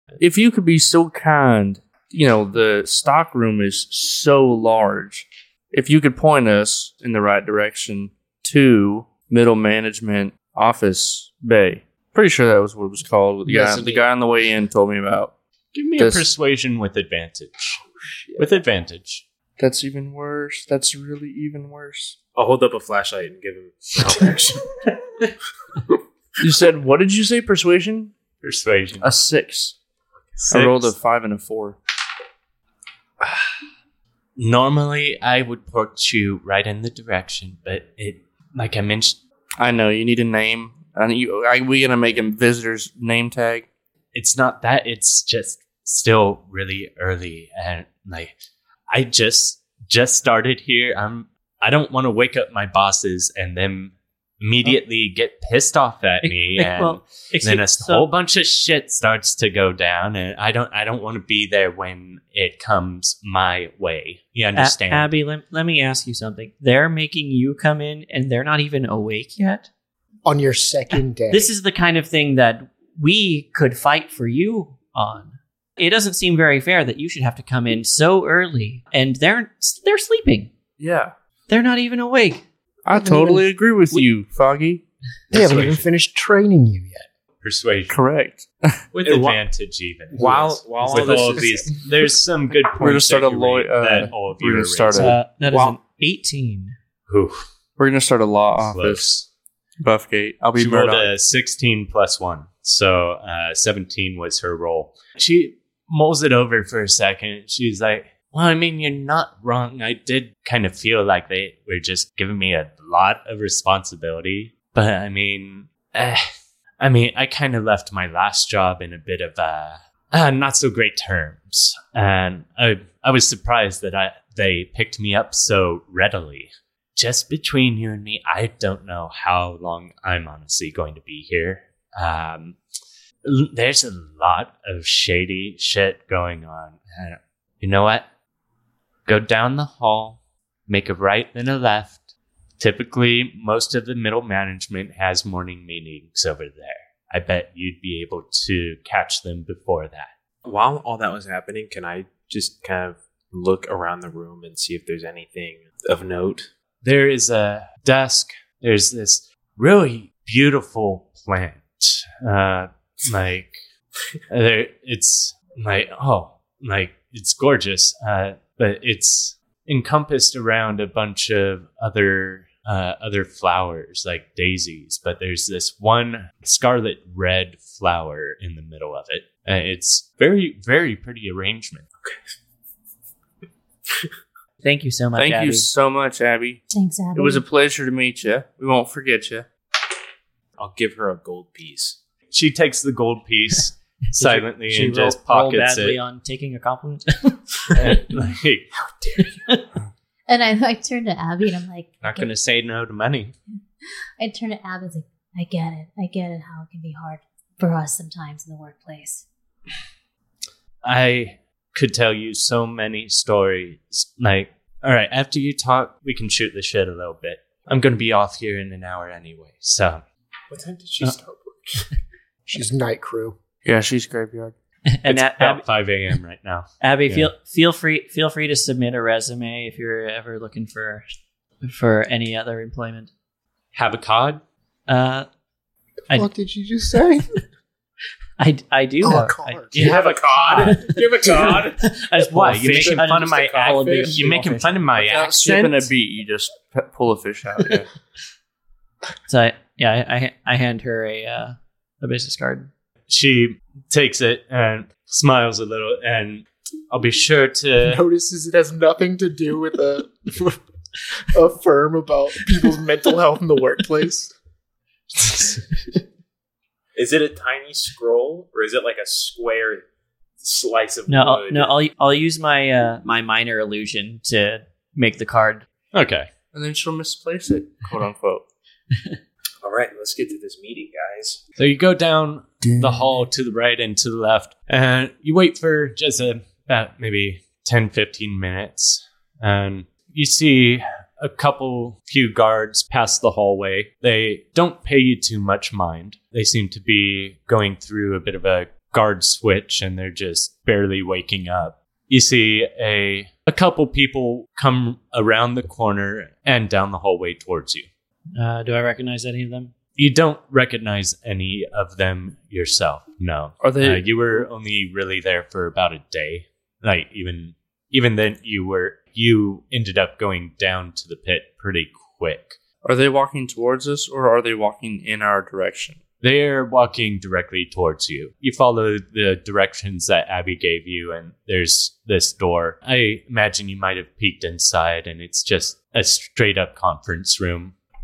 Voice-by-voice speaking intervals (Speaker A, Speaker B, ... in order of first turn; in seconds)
Speaker A: 0.2-15.3, 16.0-16.3, 19.6-22.1, 26.4-28.1, 29.0-29.7, 30.5-31.8, 39.6-43.7, 80.8-81.1, 82.8-84.8, 87.9-88.8, 92.7-95.2, 97.8-99.1, 99.8-101.1, 185.2-186.6, 187.1-189.4, 223.6-224.5, 245.0-247.8, 276.5-278.4, 282.6-283.1, 313.6-314.1, 322.8-326.0
Speaker B: 13.5-13.9, 56.2-58.1, 64.5-69.7, 71.3-80.5, 81.5-82.4, 94.9-96.8, 184.6-185.7, 194.1-198.0, 199.2-199.6, 224.9-225.6, 226.8-233.1, 234.9-235.3, 238.4-239.9, 240.5-244.8, 249.3-252.7, 271.1-275.7, 308.3-309.7
Speaker C: 13.5-14.0, 15.7-17.8, 18.4-19.2, 28.4-29.1, 30.5-30.9, 34.4-39.2, 44.1-48.3, 48.9-65.1, 85.3-85.8, 87.4-88.0, 88.9-95.1, 97.1-97.4, 98.6-99.2, 100.5-116.2, 116.8-132.6, 133.2-138.1, 139.1-142.0, 142.6-150.1, 156.8-163.6, 164.3-181.8, 192.3-196.0, 197.7-199.3, 202.0-203.3, 210.8-220.0, 225.1-227.3, 233.7-234.4, 239.7-241.5, 242.3-245.9, 253.1-258.0, 275.9-276.3, 281.6-307.9, 310.0-322.6, 326.2-337.7
Speaker D: 22.3-24.8, 89.0-89.4, 90.1-91.7, 95.5-95.8, 150.4-156.5, 190.6-192.0, 220.5-221.9, 239.7-241.9, 242.5-244.3, 266.9-269.9, 270.4-271.7, 279.6-281.4
Speaker E: 70.2-71.5, 82.9-83.5, 85.3-87.1, 222.5-223.3, 236.1-237.4, 239.0-239.9, 257.8-260.6, 261.3-264.3
Speaker F: 186.7-187.4, 200.3-202.3, 204.2-209.2